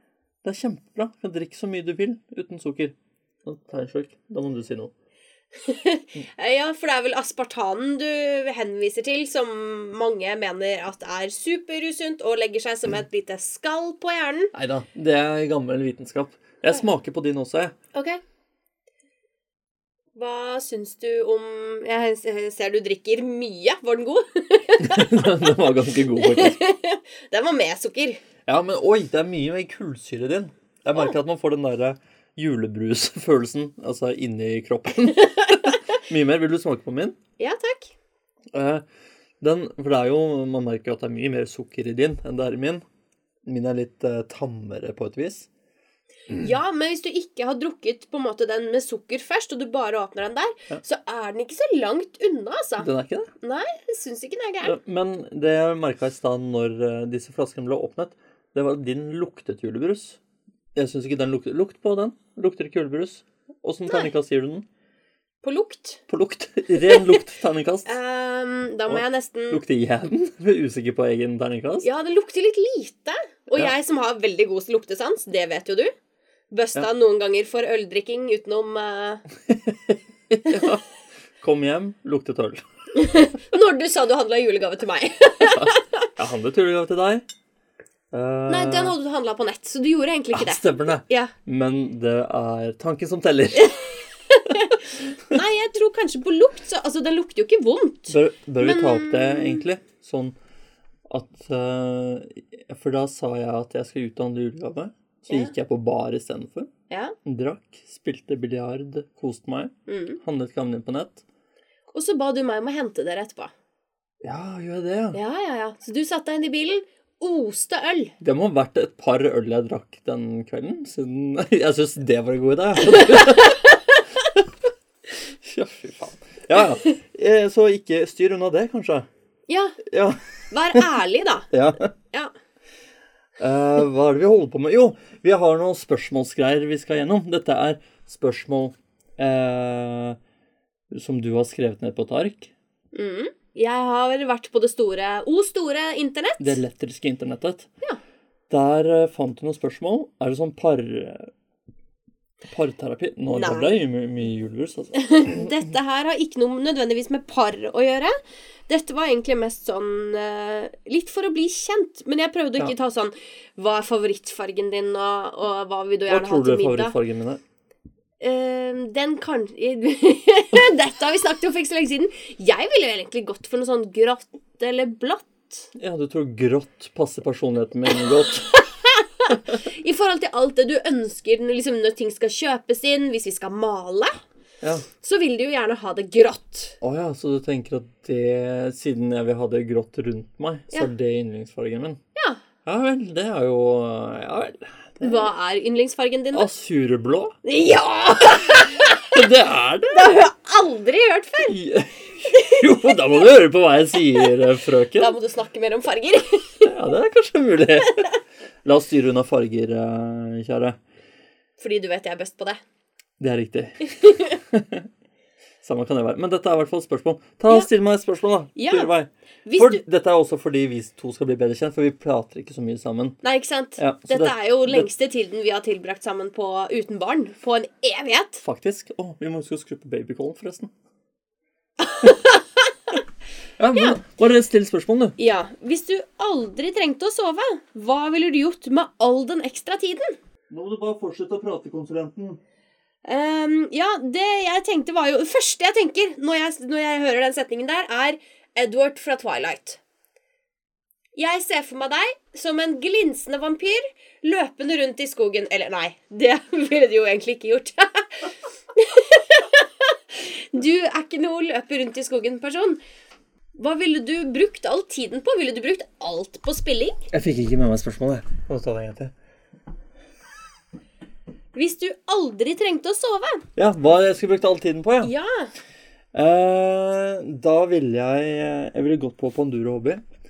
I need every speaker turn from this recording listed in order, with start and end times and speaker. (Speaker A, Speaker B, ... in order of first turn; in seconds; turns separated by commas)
Speaker A: 0.4-4.9, Speaker B: 5.6-14.5, Speaker A: 14.5-17.7, Speaker B: 17.9-18.2, Speaker B: 20.1-25.5, Speaker A: 24.8-26.6, Speaker B: 26.1-28.2, Speaker A: 28.4-37.2, Speaker B: 35.2-35.8, Speaker B: 37.4-37.9, Speaker A: 38.5-38.8, Speaker A: 39.4-42.8, Speaker A: 43.4-45.5, Speaker B: 46.3-52.9, Speaker A: 52.8-53.3, Speaker B: 53.4-54.8, Speaker A: 54.6-60.2, Speaker A: 60.7-64.7, Speaker B: 65.4-66.0, Speaker A: 66.1-67.9, Speaker B: 66.8-67.1, Speaker B: 67.8-69.6, Speaker A: 68.9-71.9, Speaker B: 71.8-75.9, Speaker B: 76.5-79.2, Speaker A: 79.5-80.8, Speaker A: 81.4-82.6, Speaker B: 82.9-86.1, Speaker A: 85.5-87.2, Speaker A: 88.1-88.9, Speaker B: 88.5-91.3, Speaker A: 90.3-93.8, Speaker B: 93.5-99.6, Speaker A: 98.1-100.3, Speaker A: 101.1-106.7, Speaker B: 106.9-107.1, Speaker A: 107.2-111.2, Speaker B: 109.9-110.2, Speaker B: 111.9-113.5, Speaker A: 114.2-115.2, Speaker B: 115.1-118.1, Speaker A: 118.2-123.8, Speaker B: 123.1-123.7, Speaker A: 125.4-129.1, Speaker B: 129.5-129.8, Speaker A: 129.8-130.2, Speaker B: 130.5-131.5, Speaker A: 131.5-131.9, Speaker A: 133.4-140.2, Speaker A: 140.9-142.5, Speaker B: 142.9-146.6, Speaker A: 146.4-147.7, Speaker A: 148.5-151.3, Speaker A: 152.4-155.5, Speaker B: 153.3-153.8, Speaker B: 154.9-158.1, Speaker B: 158.7-166.9, Speaker A: 166.1-167.4, Speaker B: 168.2-175.7, Speaker A: 175.7-178.5, Speaker B: 178.4-184.2, Speaker B: 185.0-186.8, Speaker A: 186.8-192.0, Speaker B: 192.2-192.4, Speaker A: 192.7-195.3, Speaker B: 195.0-196.5, Speaker A: 196.3-197.4, Speaker B: 197.4-199.2, Speaker A: 199.0-200.1, Speaker B: 199.9-201.6, Speaker A: 201.4-205.2, Speaker B: 202.3-202.7, Speaker B: 204.9-206.7, Speaker A: 206.6-208.1, Speaker A: 208.6-210.8, Speaker B: 211.6-212.6, Speaker A: 213.2-214.9, Speaker B: 213.9-214.4, Speaker A: 215.6-223.2, Speaker B: 218.6-218.9, Speaker B: 219.4-219.8, Speaker B: 223.2-228.4, Speaker A: 223.8-224.9, Speaker A: 228.4-230.7, Speaker B: 231.8-232.7, Speaker A: 233.6-235.1, Speaker B: 235.2-240.2, Speaker A: 240.5-242.4, Speaker B: 243.0-249.8, Speaker B: 251.2-262.8, Speaker B: 263.6-267.1, Speaker A: 267.1-269.1, Speaker B: 271.5-273.5, Speaker A: 273.6-275.1, Speaker B: 275.0-275.5, Speaker A: 276.1-280.0